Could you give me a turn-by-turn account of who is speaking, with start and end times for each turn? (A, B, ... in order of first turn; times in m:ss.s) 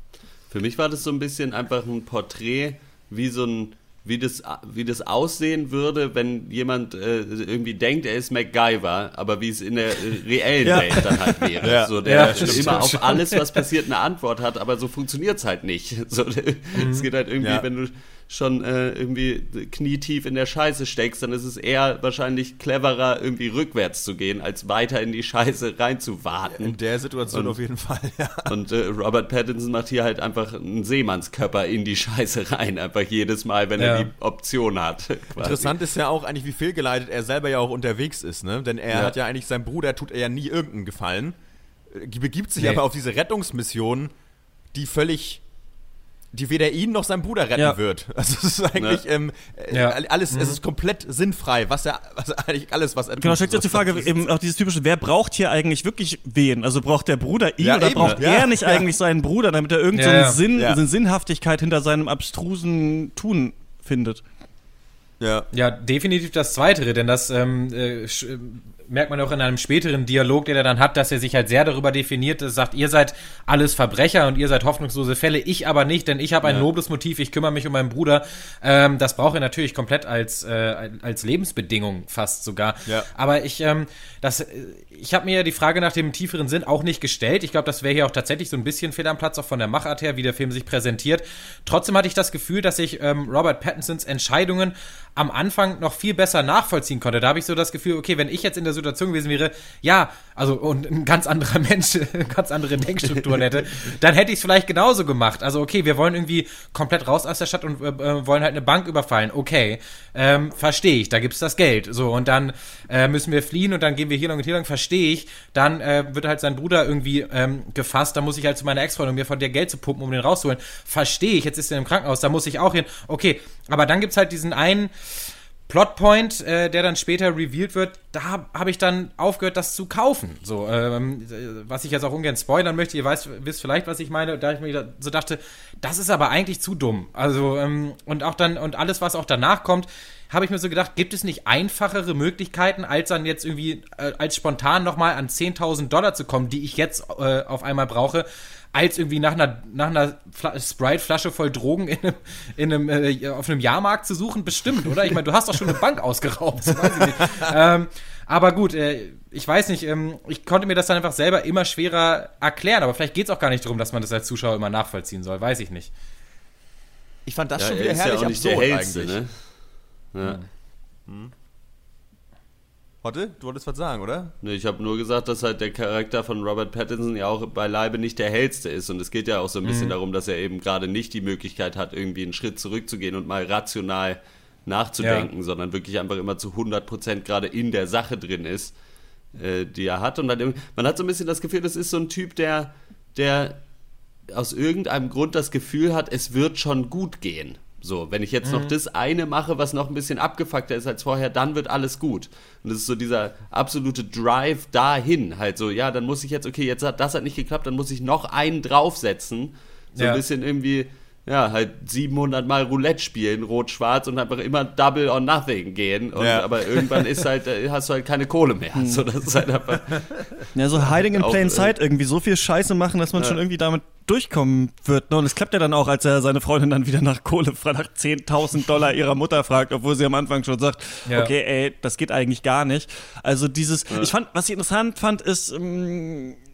0:00.5-0:26.8 A
0:10.6-0:11.6 B
0:11.6-0:13.0 C
0:12.0-0:13.4 D
0:16.7-0:17.1 D
0:17.4-0:17.6 C
0:26.5-0:28.5 C
0:27.3-0:27.6 A
0:28.5-0:35.7 A
0:33.8-0:34.1 D
0:35.4-0:41.4 C
0:41.9-0:44.1 C
0:44.7-0:45.4 C
0:46.3-0:54.3 C
0:48.8-0:49.0 A
0:49.7-0:50.6 D
0:53.2-1:04.2 B
0:57.6-0:58.9 C
0:59.9-1:00.4 D
1:05.2-1:05.5 C
1:05.5-2:45.9 D
2:47.2-2:49.2 C
2:47.6-2:49.3 A
2:50.1-2:50.4 A
2:51.0-2:51.3 C
2:53.0-2:54.3 C
2:54.4-3:08.7 A
2:59.6-2:59.9 D
3:05.0-3:05.3 D
3:09.4-3:13.6 A
3:14.3-3:41.7 A
3:18.4-3:18.7 D
3:30.0-3:30.2 D
3:36.2-3:37.1 C
3:38.8-3:39.0 B
3:40.5-3:56.4 B
3:51.0-3:51.3 D